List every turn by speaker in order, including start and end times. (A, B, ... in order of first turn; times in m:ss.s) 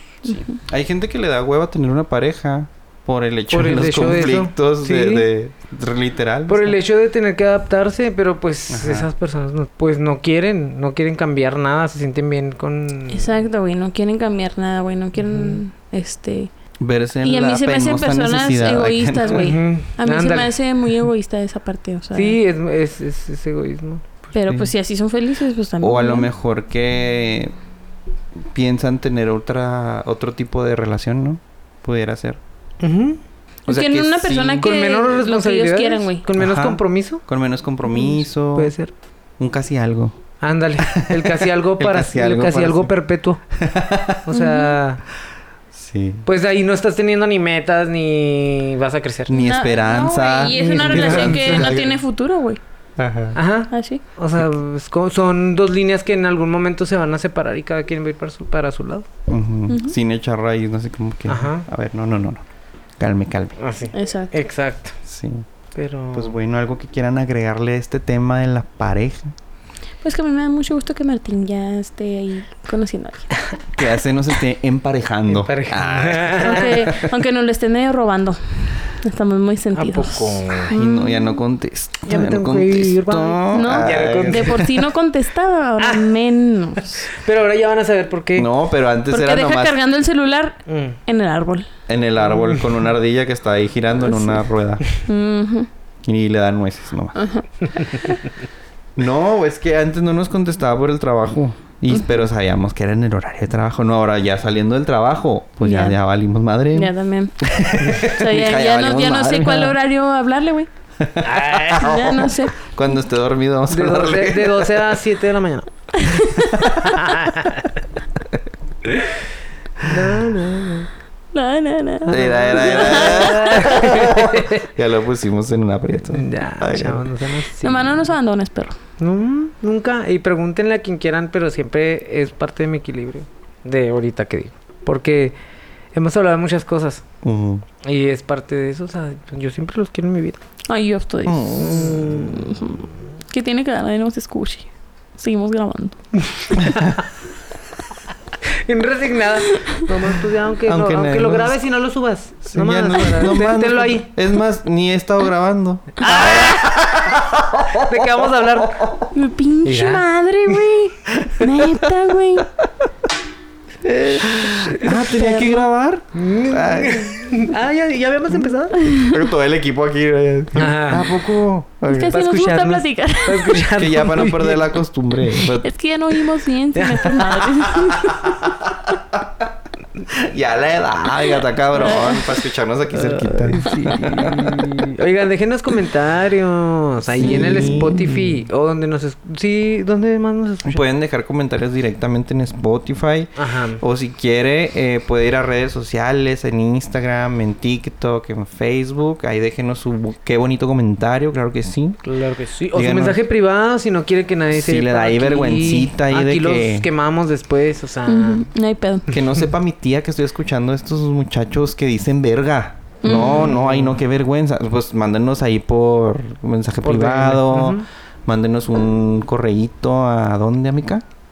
0:00.2-0:00.6 A
0:00.2-0:06.8 B
0:03.5-0:05.3 C
0:06.5-0:13.3 C
0:08.7-0:09.1 B
0:13.1-0:16.5 A
0:15.2-0:15.6 C
0:16.8-0:19.5 B
0:17.2-0:22.4 A
0:19.3-0:20.5 C
0:22.1-0:24.0 C
0:24.3-0:26.3 A
0:25.8-0:27.5 B
0:28.5-0:32.4 B
0:32.8-0:33.2 C
0:33.7-0:34.7 B
0:33.7-0:36.2 A
0:34.6-0:37.2 C
0:36.4-0:38.7 B
0:38.5-0:38.9 C
0:39.4-0:40.2 B
0:40.4-0:43.4 C
0:40.8-0:42.9 B
0:43.5-0:44.2 B
0:44.3-0:45.0 C
0:44.3-0:44.8 A
0:45.7-0:46.3 B
0:46.2-0:49.3 C
0:49.3-0:52.0 B
0:49.3-0:52.6 A
0:50.5-0:51.9 C
0:53.0-0:53.4 B
0:53.3-0:59.1 C
0:53.7-0:54.0 A
0:59.3-1:02.4 B
0:59.7-1:00.0 A
1:01.3-1:01.6 C
1:03.0-1:03.6 B
1:03.6-1:05.0 C
1:03.9-1:04.4 A
1:05.0-1:05.5 B
1:05.7-1:06.4 C
1:06.1-1:09.3 B
1:10.0-1:13.5 A
1:13.7-1:17.1 B
1:15.3-1:16.9 C
1:16.4-1:21.4 A
1:19.7-1:20.7 C
1:20.7-1:24.8 B
1:22.1-1:24.7 C
1:23.5-1:27.1 A
1:25.8-1:26.1 C
1:27.1-1:28.5 C
1:28.4-1:29.8 B
1:29.1-1:31.7 A
1:30.7-1:31.0 C
1:31.9-1:34.8 B
1:32.3-1:32.6 C
1:34.1-1:34.4 A
1:35.0-1:35.7 A
1:36.0-1:37.2 B
1:37.2-1:38.2 A
1:37.6-1:37.9 C
1:39.0-1:49.8 B
1:45.6-1:46.0 A
1:46.7-1:47.5 A
1:47.8-1:48.1 C
1:48.0-1:50.7 A
1:51.0-1:54.9 B
1:51.2-1:52.0 C
1:51.8-1:52.7 A
1:53.7-1:56.0 C
1:56.0-1:56.7 A
1:56.8-1:57.8 C
1:58.9-1:59.2 C
1:59.8-2:00.9 C
2:01.3-2:03.9 A
2:02.0-2:07.1 B
2:02.6-2:04.6 C
2:06.1-2:08.1 C
2:07.6-2:08.8 A
2:09.0-2:15.4 C
2:15.9-2:17.0 C
2:17.2-2:17.6 B
2:17.8-2:20.4 C
2:20.7-2:26.0 A
2:21.2-2:22.3 B
2:21.9-2:22.2 C
2:26.4-2:27.0 C
2:28.5-2:34.1 C
2:30.6-2:31.5 B
2:32.4-2:37.9 B
2:36.0-2:36.7 C
2:36.1-2:36.5 A
2:37.8-2:38.9 C
2:39.1-2:42.5 A
2:39.6-2:40.0 C
2:41.2-2:41.5 B
2:43.8-2:47.4 B
2:44.8-2:45.7 A
2:46.1-2:48.8 C
2:48.8-2:49.2 A
2:49.0-2:52.2 B
2:50.5-2:51.1 C
2:51.9-2:53.6 A
2:52.1-2:54.8 C
2:53.8-2:55.7 B
2:55.6-2:58.4 A
2:56.7-2:57.5 C
2:58.1-2:58.5 B
3:00.0-3:04.7 B
3:01.7-3:02.4 A
3:02.9-3:10.8 C
3:07.2-3:08.3 B
3:10.6-3:22.0 B
3:13.4-3:13.8 C
3:22.0-3:28.4 C
3:22.7-3:23.2 B
3:24.5-3:26.9 B
3:28.1-3:29.0 A
3:29.1-3:41.0 B
3:33.0-3:33.6 A
3:33.0-3:34.0 C
3:36.8-3:37.8 C